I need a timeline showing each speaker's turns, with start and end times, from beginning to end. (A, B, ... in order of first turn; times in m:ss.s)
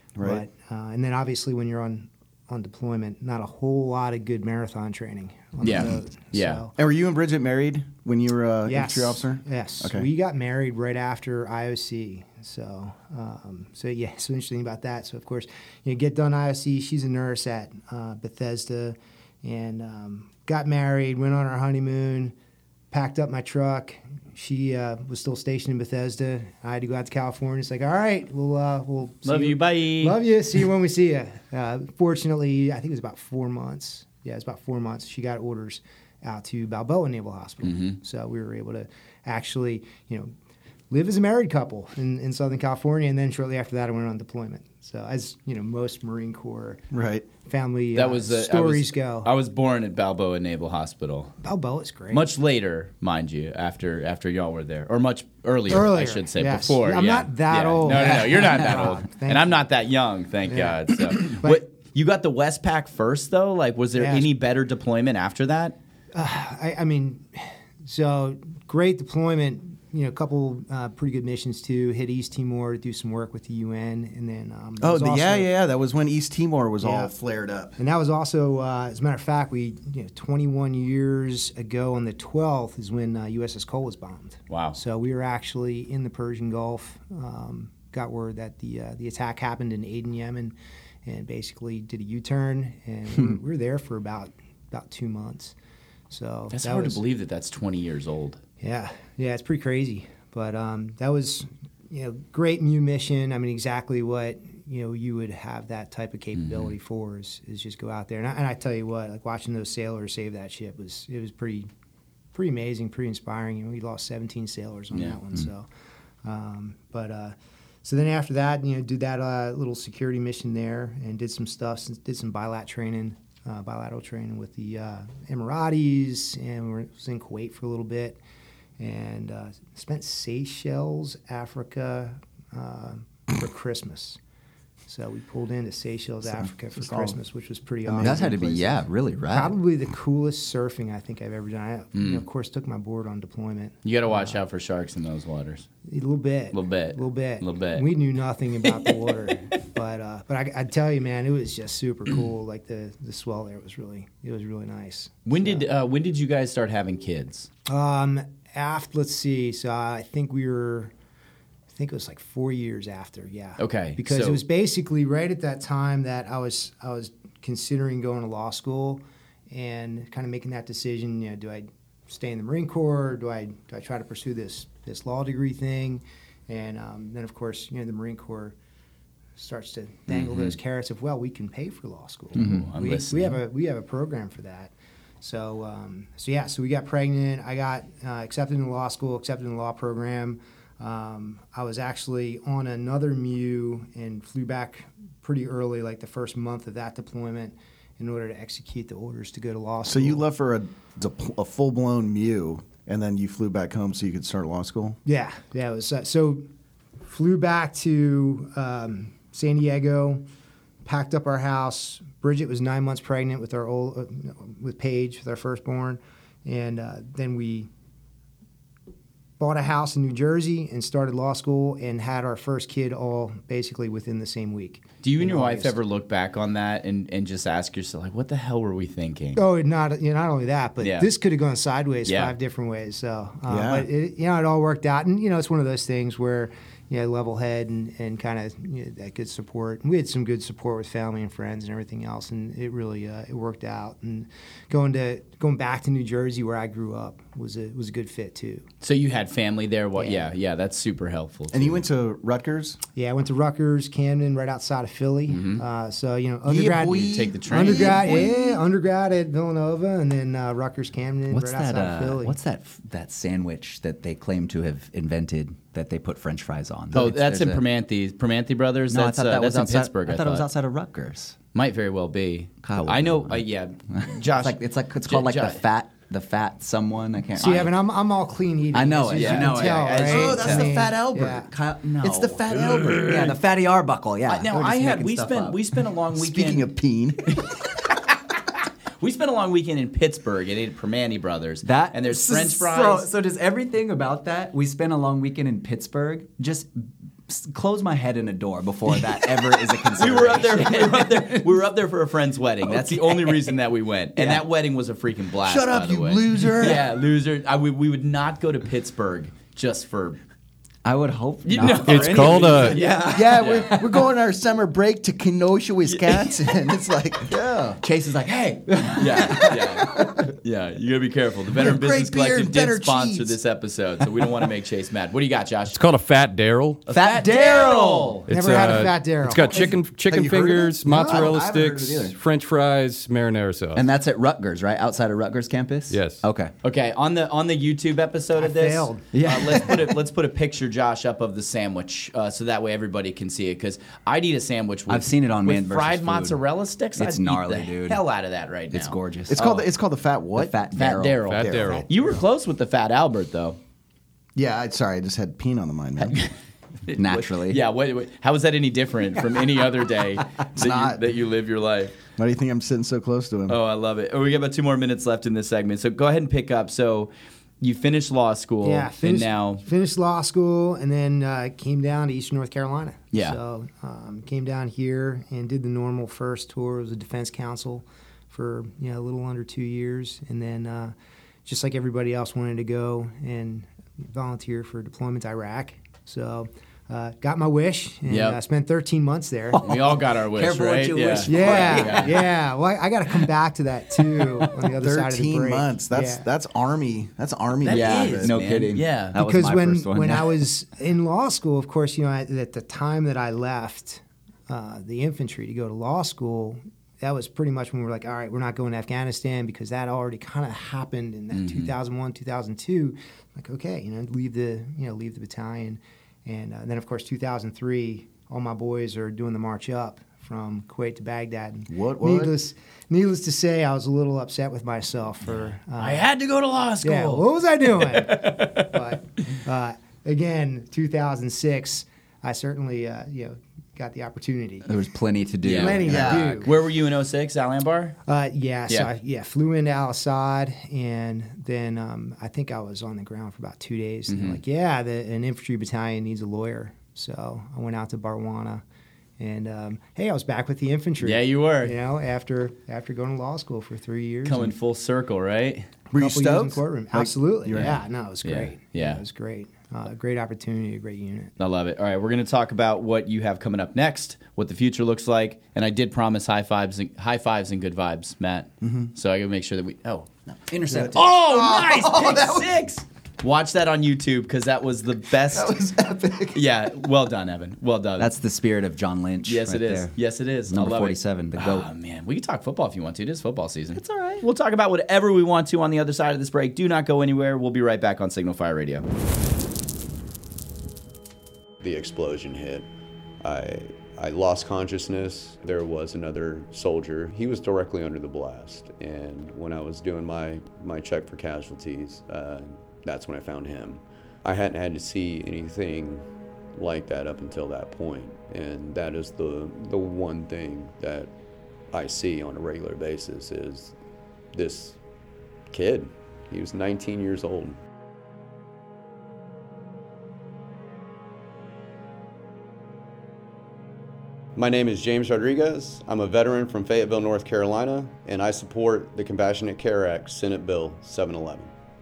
0:00.2-0:00.4 A
0:00.2-0:06.7 B
0:05.6-0:06.6 C
0:06.8-0:10.1 A
0:08.6-0:22.3 B
0:22.9-0:40.3 B
0:29.2-0:30.2 C
0:37.6-0:38.0 C
0:40.9-0:46.8 B
0:46.9-0:47.3 A
0:47.4-0:49.3 B
0:47.9-0:51.3 C
0:51.4-0:52.3 B
0:52.1-1:05.8 C
0:55.7-0:59.6 B
0:57.8-0:58.9 D
1:00.4-1:01.6 B
1:04.0-1:04.3 B
1:06.1-1:15.5 B
1:14.8-1:17.8 A
1:16.8-1:17.1 B
1:17.8-1:30.5 B
1:24.5-1:24.8 C
1:31.0-1:35.5 B
1:36.1-1:37.0 B
1:36.5-1:38.4 C
1:38.6-1:51.7 B
1:46.4-1:46.7 C
1:52.3-1:55.6 B
1:56.2-2:08.2 B
2:08.8-2:14.2 B
2:14.9-2:24.4 B
2:17.9-2:19.5 D
2:21.9-2:22.2 C
2:23.8-2:25.6 C
2:25.9-2:35.6 B
2:26.5-2:27.8 C
2:35.2-2:37.5 C
2:37.7-2:40.9 B
2:41.7-2:58.5 B
2:43.6-2:44.4 C
2:59.4-3:20.2 B
3:00.1-3:00.5 C
3:02.3-3:03.4 C
3:02.4-3:02.7 D
3:19.8-3:25.0 A
3:25.0-3:26.4 B
3:27.0-3:30.2 B
3:30.8-3:37.7 B
3:39.4-3:45.8 B
3:45.0-3:49.4 C
3:49.4-4:08.6 B
3:50.8-3:51.1 C
3:52.0-3:52.3 C
3:53.5-3:53.9 A
4:08.8-4:11.8 C
4:10.0-4:10.3 B
4:11.5-4:12.8 A
4:12.9-4:22.4 B
4:15.3-4:15.6 C
4:16.4-4:18.6 A
4:17.1-4:18.3 C
4:21.3-4:27.6 D
4:26.9-4:30.5 C
4:28.9-4:31.4 D
4:31.5-4:35.6 C
4:32.6-4:37.8 D
4:37.4-4:41.5 B
4:38.7-4:40.2 D
4:39.1-4:40.7 C
4:40.0-4:41.5 A
4:41.3-4:45.8 D
4:42.0-4:43.3 A
4:42.5-4:43.4 C
4:44.3-4:46.6 C
4:46.1-4:47.4 A
4:47.3-4:48.3 C
4:49.0-4:53.1 C
4:51.6-5:01.6 D
4:59.2-5:10.2 C
5:02.6-5:03.5 D
5:04.2-5:04.4 D
5:05.4-5:06.8 A
5:10.8-5:14.1 D
5:11.4-5:13.7 C
5:11.8-5:12.8 E
5:12.9-5:17.8 A
5:17.8-5:20.1 D
5:18.9-5:25.8 C
5:21.5-5:23.4 A
5:25.7-5:26.8 E
5:26.8-5:28.3 C
5:26.9-5:28.3 D
5:28.3-5:33.8 E
5:28.3-5:29.7 B
5:29.5-5:32.2 A
5:30.8-5:31.4 B
5:33.7-5:36.5 D
5:35.9-5:36.2 E
5:36.6-5:49.6 C
5:38.4-5:39.1 B
5:39.1-5:40.0 D
5:44.9-5:46.4 D
5:46.9-5:48.0 D
5:48.7-5:49.4 D
5:49.3-5:50.5 A
5:50.4-5:51.7 D
5:50.7-5:53.6 C
5:51.2-5:51.9 E
5:54.4-5:56.2 A
5:56.0-5:56.3 C
5:56.8-6:01.9 C
5:56.9-5:57.6 D
6:00.6-6:01.0 A
6:02.2-6:03.6 A
6:03.5-6:09.6 C
6:08.6-6:20.9 B
6:13.1-6:13.4 C
6:21.4-6:29.7 B
6:28.1-6:28.4 C
6:29.6-6:32.2 C
6:29.7-6:32.2 D
6:31.2-6:36.2 B
6:34.7-6:38.4 A
6:37.6-6:39.2 C
6:37.6-6:40.4 D
6:39.1-7:06.1 B
6:51.3-6:51.7 C
7:01.7-7:02.3 A
7:05.8-7:08.8 C
7:06.8-7:14.8 B
7:14.6-7:16.4 D
7:15.4-7:16.5 B
7:15.4-7:18.0 C
7:15.8-7:16.4 A
7:18.1-7:28.6 B
7:24.1-7:24.4 C
7:29.2-7:34.5 B
7:31.0-7:31.8 C
7:34.2-7:35.7 C
7:35.9-7:37.8 A
7:36.0-7:41.3 B
7:37.6-7:39.0 C
7:41.4-7:50.1 C
7:48.6-7:48.9 A
7:50.5-7:51.1 D
7:50.7-7:52.6 A
7:50.7-7:55.6 C
7:55.3-7:56.4 A
7:56.3-7:58.1 C
7:58.0-7:59.9 D
7:59.2-8:08.8 C
8:00.5-8:01.7 D
8:03.7-8:04.2 D
8:11.6-8:12.6 F
8:13.2-8:31.1 F
8:31.7-8:33.7 F
8:34.3-8:34.8 F
8:35.5-8:37.6 F
8:44.4-8:51.5 F